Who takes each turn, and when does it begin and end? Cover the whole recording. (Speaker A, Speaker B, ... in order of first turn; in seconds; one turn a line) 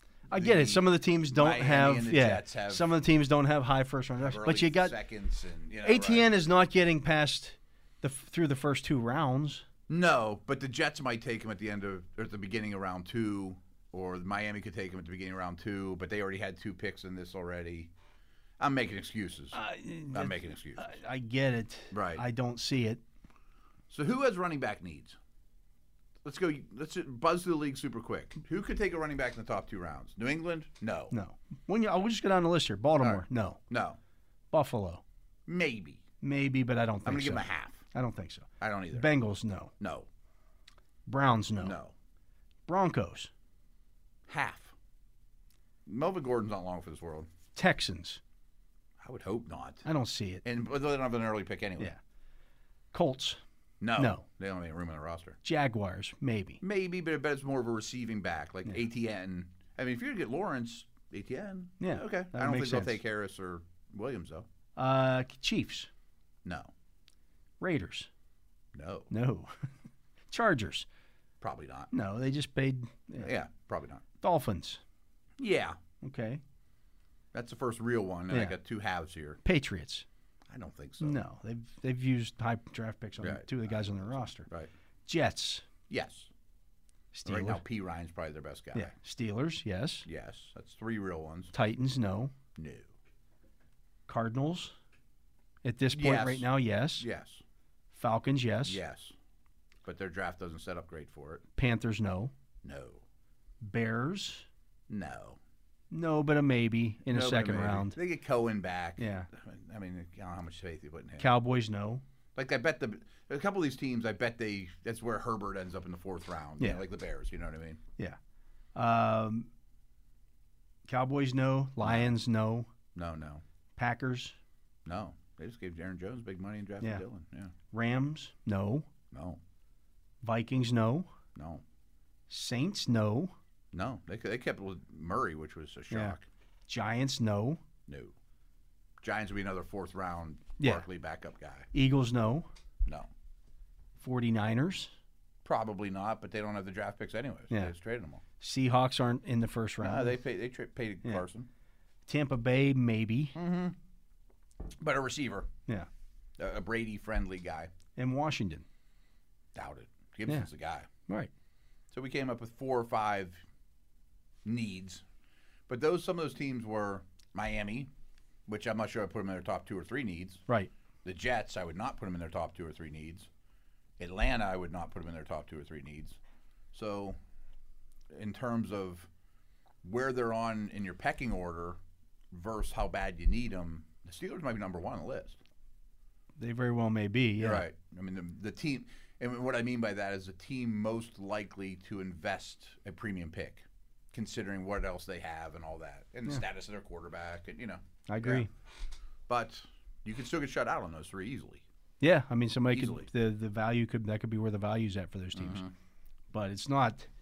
Speaker A: 0.3-2.9
Speaker B: 0.3-5.0
Speaker A: 4.2-6.3
Speaker B: 5.8-9.7
Speaker A: 9.9-17.9
Speaker A: 18.6-19.6
Speaker B: 19.5-23.0
Speaker A: 20.1-21.0
Speaker A: 21.9-22.2
Speaker A: 23.9-25.2
Speaker A: 26.2-31.1
Speaker B: 31.1-33.6
Speaker A: 33.0-34.0
Speaker B: 34.5-35.0
Speaker A: 35.5-36.0
Speaker B: 36.2-39.7
Speaker A: 37.0-37.9
Speaker A: 38.6-39.1
Speaker A: 39.8-40.1
Speaker B: 41.1-41.8
Speaker A: 41.6-41.9
Speaker B: 42.7-43.3
Speaker A: 44.3-44.8
Speaker A: 45.9-47.3
Speaker B: 47.5-48.2
Speaker A: 49.0-49.9
Speaker B: 49.9-50.4
Speaker A: 50.4-51.9
Speaker B: 52.9-53.4
Speaker A: 53.8-55.4
Speaker B: 54.0-54.2
Speaker B: 55.4-56.6
Speaker A: 56.6-64.5
Speaker B: 61.8-63.0
Speaker B: 64.8-65.9
Speaker A: 66.4-66.7
Speaker B: 67.6-68.1
Speaker A: 68.7-69.1
Speaker B: 69.1-69.7
Speaker B: 70.3-70.9
Speaker A: 71.4-71.9
Speaker B: 71.9-73.3
Speaker A: 73.2-74.0
Speaker B: 74.2-74.8
Speaker A: 75.4-75.8
Speaker B: 76.0-76.4
Speaker A: 77.3-79.4
Speaker B: 78.3-78.6
Speaker B: 79.4-80.1
Speaker A: 80.5-81.2
Speaker B: 81.0-84.5
Speaker A: 83.2-84.0
Speaker B: 85.1-85.7
Speaker A: 85.9-86.3
Speaker B: 87.1-87.6
Speaker A: 87.3-88.9
Speaker B: 88.7-90.1
Speaker A: 90.1-91.5
Speaker B: 91.5-92.3
Speaker A: 92.6-92.9
Speaker B: 94.1-94.7
Speaker B: 95.6-97.1
Speaker A: 95.9-97.4
Speaker B: 97.9-98.8
Speaker A: 98.7-99.2
Speaker A: 99.8-101.4
Speaker B: 101.6-102.3
Speaker A: 102.6-103.0
Speaker B: 103.6-104.5
Speaker A: 104.9-105.4
Speaker B: 105.9-108.0
Speaker A: 107.1-111.3
Speaker B: 109.0-109.3
Speaker B: 111.2-112.0
Speaker A: 112.3-117.8
Speaker B: 118.8-119.5
Speaker B: 120.9-122.7
Speaker A: 121.8-122.2
Speaker A: 123.0-123.4
Speaker B: 123.8-124.4
Speaker A: 124.9-127.5
Speaker B: 127.7-128.9
Speaker A: 129.1-129.4
Speaker B: 130.2-131.1
Speaker A: 131.3-131.6
Speaker B: 132.3-133.3
Speaker A: 133.7-136.3
Speaker B: 135.9-136.2
Speaker B: 136.7-137.6
Speaker A: 137.9-138.1
Speaker A: 139.0-141.7
Speaker B: 141.7-142.5
Speaker B: 144.0-144.9
Speaker A: 145.4-148.2
Speaker B: 148.4-150.2
Speaker A: 149.8-151.5
Speaker B: 152.1-153.3
Speaker A: 153.3-153.8
Speaker A: 154.8-155.5
Speaker A: 156.4-157.7
Speaker B: 158.0-158.7
Speaker A: 159.5-160.9
Speaker A: 161.9-163.4
Speaker A: 164.4-165.0
Speaker A: 165.7-167.9
Speaker A: 168.5-170.4
Speaker A: 171.0-173.3
Speaker A: 174.0-176.2
Speaker A: 176.7-177.2
Speaker A: 178.1-179.1
Speaker A: 179.8-181.8
Speaker A: 182.3-185.4
Speaker B: 186.4-187.7
Speaker A: 187.4-198.5
Speaker B: 198.1-198.5
Speaker A: 199.3-201.6
Speaker B: 202.0-205.6
Speaker A: 202.7-203.1
Speaker A: 205.3-205.7
Speaker B: 206.3-207.1